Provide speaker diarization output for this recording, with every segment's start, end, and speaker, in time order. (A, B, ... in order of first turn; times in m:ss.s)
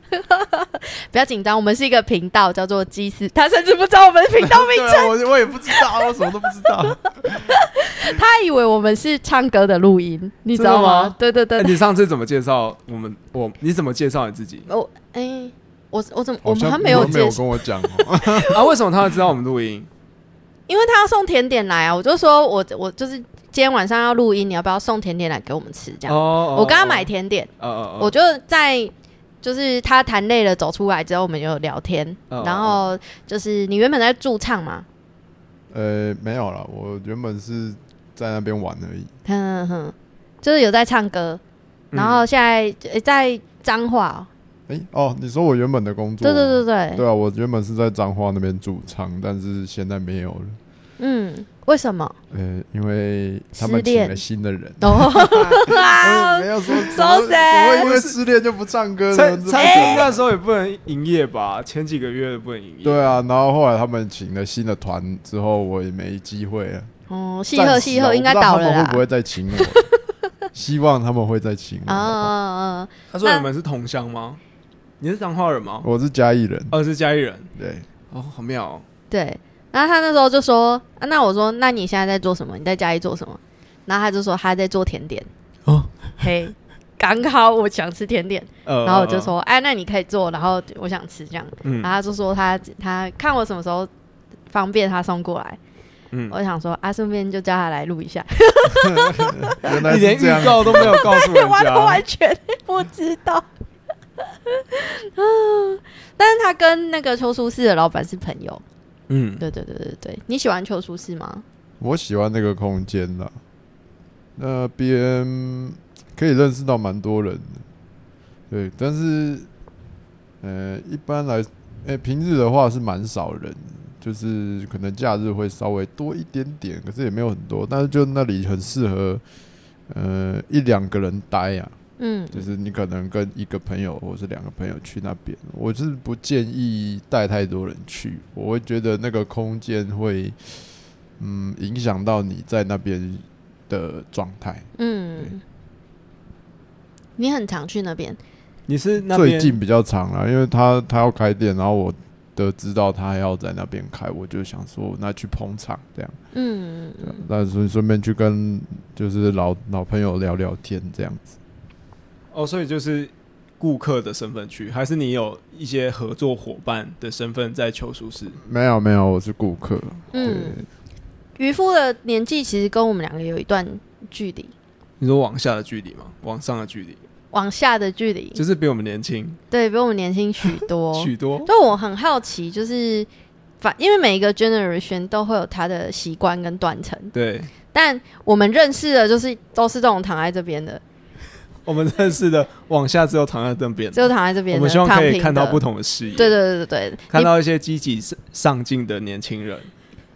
0:00.3-0:05.1 A
0:04.4-0:07.5 B
0:07.5-0:11.8 A
0:10.5-0:14.7 C
0:14.7-0:18.6 A
0:16.4-0:18.6 B
0:16.8-0:17.1 C
0:18.5-0:19.9 C
0:20.7-0:34.9 A
0:26.1-0:28.1 C
0:32.3-0:32.8 C
0:35.7-0:39.1 B
0:39.2-0:41.4 A
0:41.9-0:42.2 C
0:41.9-0:44.3 A
0:44.7-0:50.6 B
0:46.2-0:47.0 A
0:51.0-0:52.1 A
0:52.3-1:00.2 B
0:53.6-0:54.2 A
0:54.8-0:57.9 A
0:57.8-0:58.2 C
0:59.1-1:03.1 C
0:59.5-1:00.1 A
1:02.8-1:06.9 B
1:07.1-1:09.0 A
1:07.5-1:09.8 B
1:09.6-1:09.9 A
1:10.5-1:12.3 B
1:11.9-1:13.4 A
1:13.1-1:14.4 C
1:15.0-1:15.9 C
1:15.8-1:16.7 B
1:16.7-1:17.5 C
1:17.6-1:17.9 B
1:18.1-1:18.8 C
1:19.1-1:25.3 A
1:25.6-1:26.1 C
1:26.2-1:33.9 A
1:28.6-1:29.3 C
1:31.6-1:31.9 C
1:34.5-1:35.6 A
1:36.3-1:39.8 A
1:38.8-1:41.1 B
1:39.8-1:42.0 C
1:40.7-1:43.4 A
1:44.6-1:48.6 A
1:49.1-1:49.4 C
1:49.4-1:51.4 A
1:51.8-1:53.4 B
1:54.4-1:57.6 B
1:58.5-1:59.5 B
2:00.4-2:09.2 B
2:09.9-2:11.7 B
2:12.0-2:12.5 A
2:12.3-2:20.7 B
2:21.2-2:24.6 B
2:24.8-2:25.4 A
2:27.2-2:28.2 A
2:28.7-2:29.6 C
2:29.1-2:36.2 B
2:36.3-2:37.2 A
2:37.0-2:41.4 B
2:42.3-2:48.4 C
2:48.4-2:50.6 B
2:50.1-2:50.6 A
2:51.4-2:54.5 A
2:55.0-2:57.0 C
2:57.3-2:58.4 A
2:58.4-2:59.4 C
2:59.5-3:03.1 A
3:00.9-3:01.5 C
3:03.6-3:07.1 A
3:07.1-3:07.5 C
3:07.7-3:10.8 A
3:11.6-3:16.4 C
3:13.9-3:15.6 A
3:16.2-3:17.3 A
3:17.1-3:19.7 C